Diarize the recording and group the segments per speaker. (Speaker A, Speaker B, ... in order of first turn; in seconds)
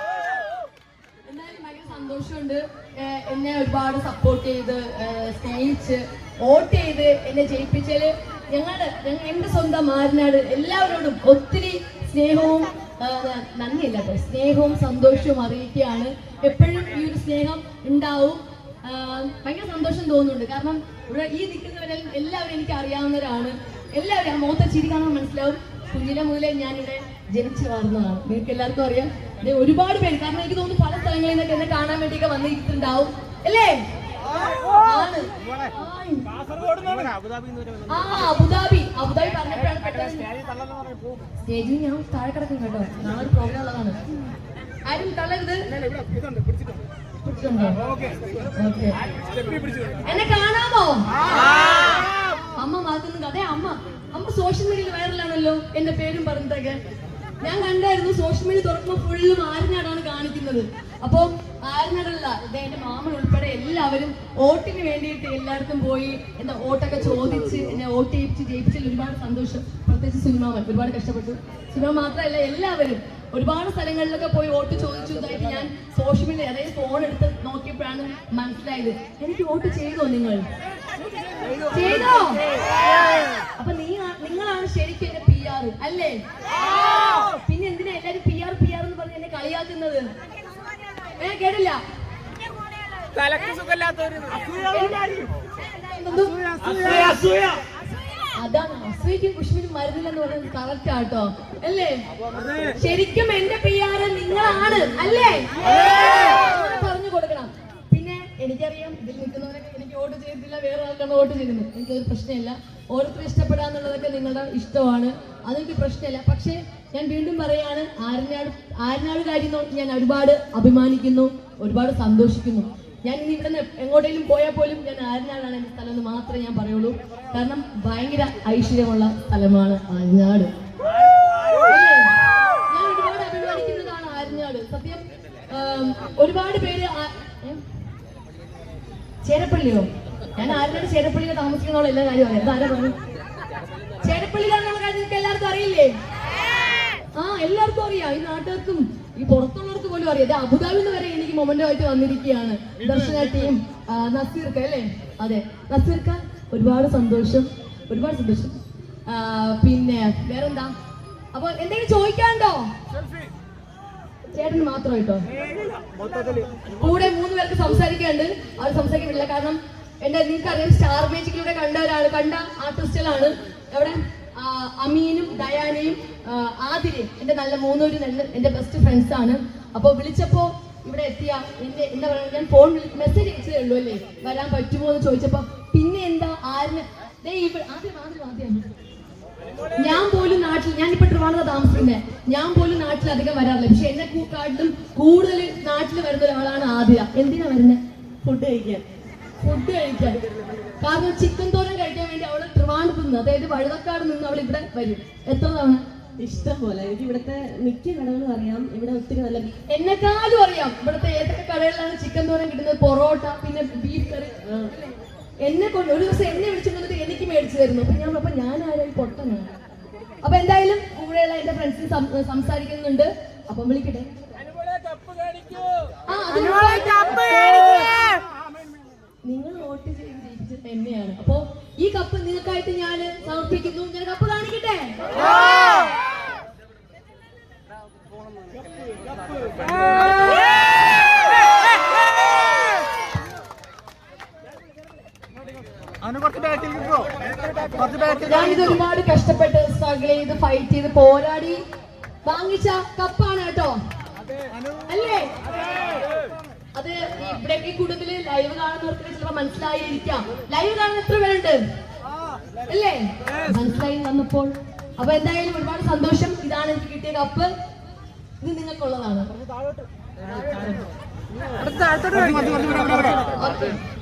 Speaker A: 1.2-33.8, 34.6-36.3, 37.9-40.3, 41.4-44.0, 44.9-45.6, 47.2-47.8, 48.6-49.0, 50.0-52.0, 52.5-56.8, 57.4-80.4, 81.7-82.4, 83.6-86.2, 86.7-90.1, 91.2-91.8, 94.7-96.5, 98.3-102.0, 102.7-130.5, 131.6-132.1, 132.7-137.6, 139.2-142.9, 144.0-145.9, 147.1-160.7, 161.3-162.7, 164.3-165.2, 166.8-188.7, 189.8-197.8, 199.4-200.2, 200.8-205.8, 209.7-214.3, 215.4-219.5, 220.2-224.1, 226.1-227.9, 229.2-235.3, 248.2-251.6, 252.2-253.8, 254.9-255.3, 256.7-261.6, 262.7-267.5, 268.4-269.3, 272.8-273.8
Speaker B: 93.1-94.6, 96.6-97.6, 271.8-272.5
Speaker C: 198.2-198.8, 206.2-209.5, 214.4-214.7